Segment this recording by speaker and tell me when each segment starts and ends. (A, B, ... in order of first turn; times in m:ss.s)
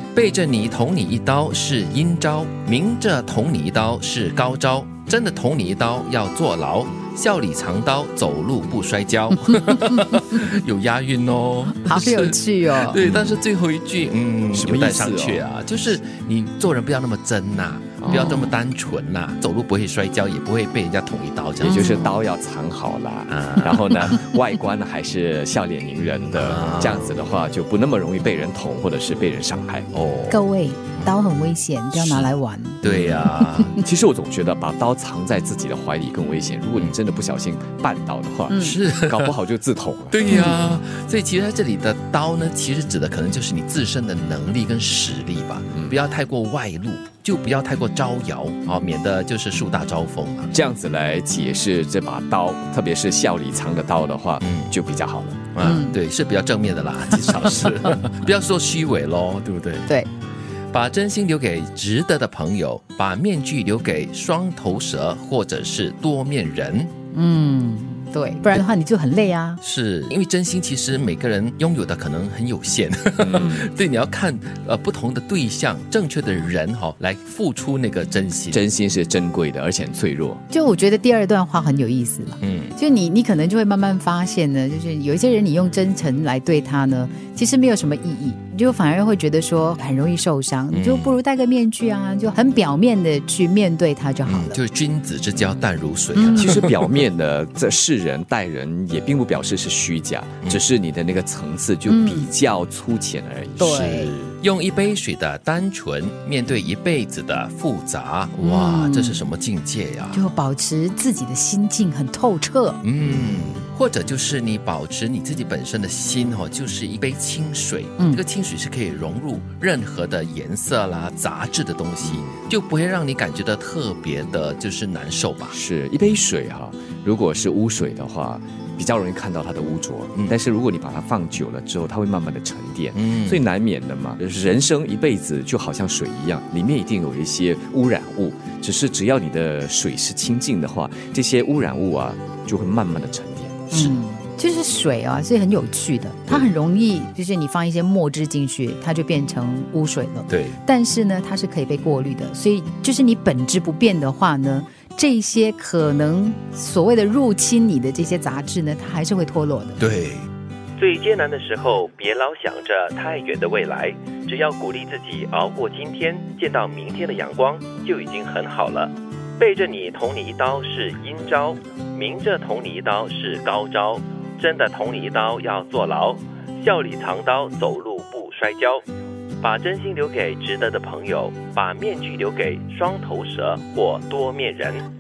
0:00.1-0:22.1 A
0:11.7-0:13.0 B
0:13.0-0:13.3 C
0:14.5-0:15.5 C
0:18.0-0:18.5 C
0:18.1-0:18.5 B
0:21.6-0:29.9 C
0:21.7-0:22.2 B
0:23.3-0:24.0 A
0:26.4-0:27.1 A
0:29.9-0:30.4 A
0:30.3-0:33.8 B
0:31.9-0:33.8 A
0:33.8-0:40.2 C
0:38.5-0:38.8 B
0:38.5-0:39.3 A
0:40.1-0:50.5 A
0:40.3-0:40.6 B
0:45.7-0:46.0 C
0:50.5-0:55.4 C
0:54.4-0:54.8 A
0:55.5-0:59.9 A
0:55.6-0:55.9 B
1:00.7-1:06.9 A
1:07.1-1:09.6 B
1:09.6-1:18.6 A
1:13.2-1:13.7 C
1:18.5-1:20.4 C
1:20.5-1:34.6 B
1:22.4-1:22.8 A
1:30.7-1:31.2 A
1:34.3-1:36.7 A
1:36.2-1:36.5 B
1:36.4-1:44.1 C
1:41.9-1:42.3 B
1:43.6-1:44.2 B
1:43.7-1:50.2 A
1:48.4-1:49.2 B
1:50.1-1:52.8 B
1:52.8-2:05.6 A
2:02.0-2:02.3 C
2:05.5-2:24.0 C
2:12.9-2:13.4 A
2:23.7-2:39.8 B
2:30.3-2:30.6 A
2:39.8-2:58.8 A
2:59.4-3:04.8 A